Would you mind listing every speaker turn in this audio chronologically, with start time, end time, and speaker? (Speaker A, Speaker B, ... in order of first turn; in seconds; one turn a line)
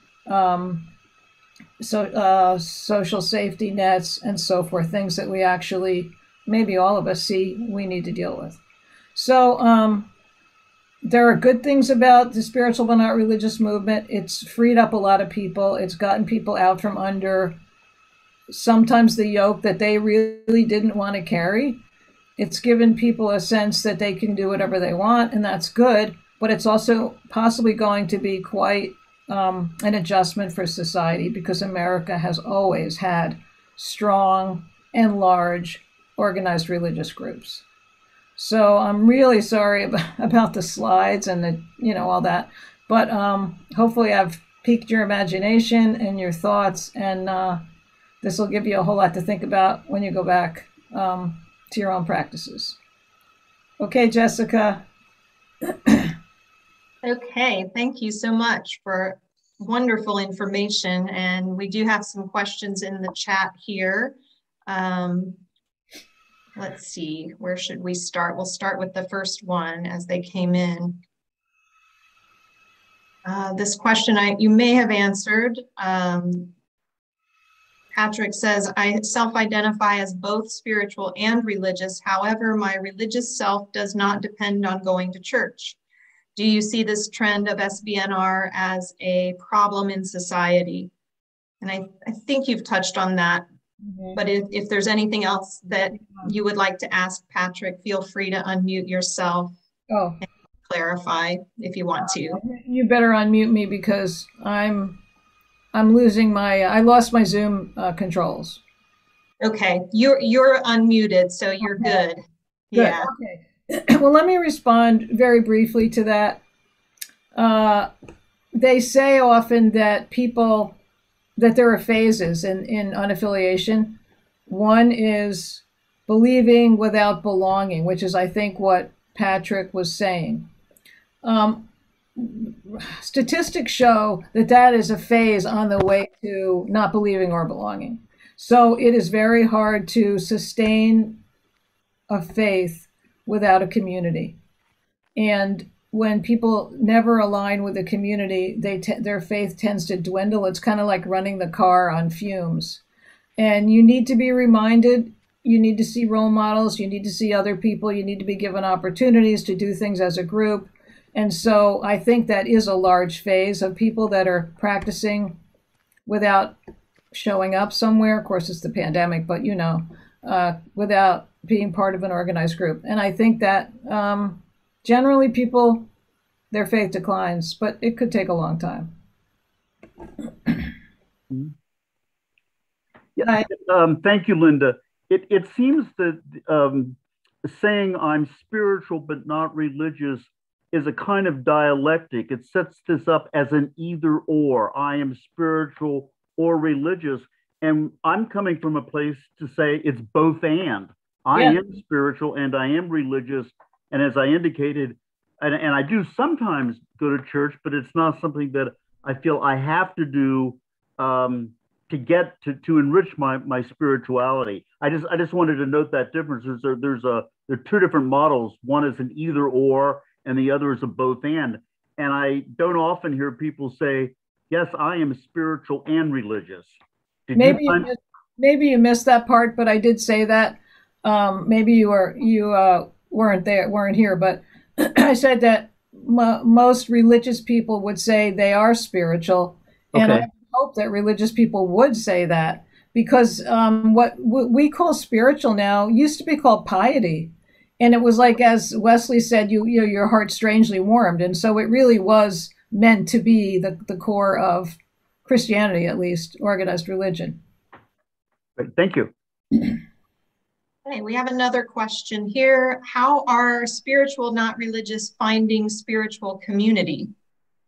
Speaker A: 0.3-0.9
Speaker A: 1.8-8.6
Speaker A: 9.2-10.1
Speaker A: 11.0-17.6
Speaker A: 18.5-21.8
Speaker A: 22.4-37.6
Speaker A: 38.4-47.6
Speaker A: 48.2-52.8
Speaker A: 53.8-54.8
Speaker A: 55.9-56.1
Speaker B: 57.0-64.2
Speaker B: 64.7-65.4
Speaker B: 66.6-71.0
Speaker B: 73.2-76.5
Speaker B: 77.9-85.8
Speaker B: 86.4-90.9
Speaker B: 91.6-93.5
Speaker A: 93.8-94.2
Speaker B: 94.2-99.5
Speaker A: 99.9-100.2
Speaker B: 100.7-102.4
Speaker A: 102.1-105.0
Speaker A: 105.7-108.6
Speaker B: 109.4-112.2
Speaker A: 111.6-112.0
Speaker B: 112.7-113.1
Speaker A: 112.7-116.4
Speaker A: 117.3-117.9
Speaker A: 118.5-120.8
Speaker A: 121.4-130.5
Speaker A: 131.2-131.6
Speaker A: 132.2-141.2
Speaker A: 142.1-144.4
Speaker A: 145.2-152.8
Speaker A: 153.4-165.4
Speaker A: 166.1-166.6
Speaker A: 167.1-175.9
Speaker A: 176.5-178.9
Speaker C: 183.2-226.8
Speaker A: 183.2-183.5
Speaker C: 227.3-227.9
Speaker A: 227.4-257.4
Speaker C: 239.9-240.3
Speaker C: 258.6-259.1
Speaker B: 260.9-267.1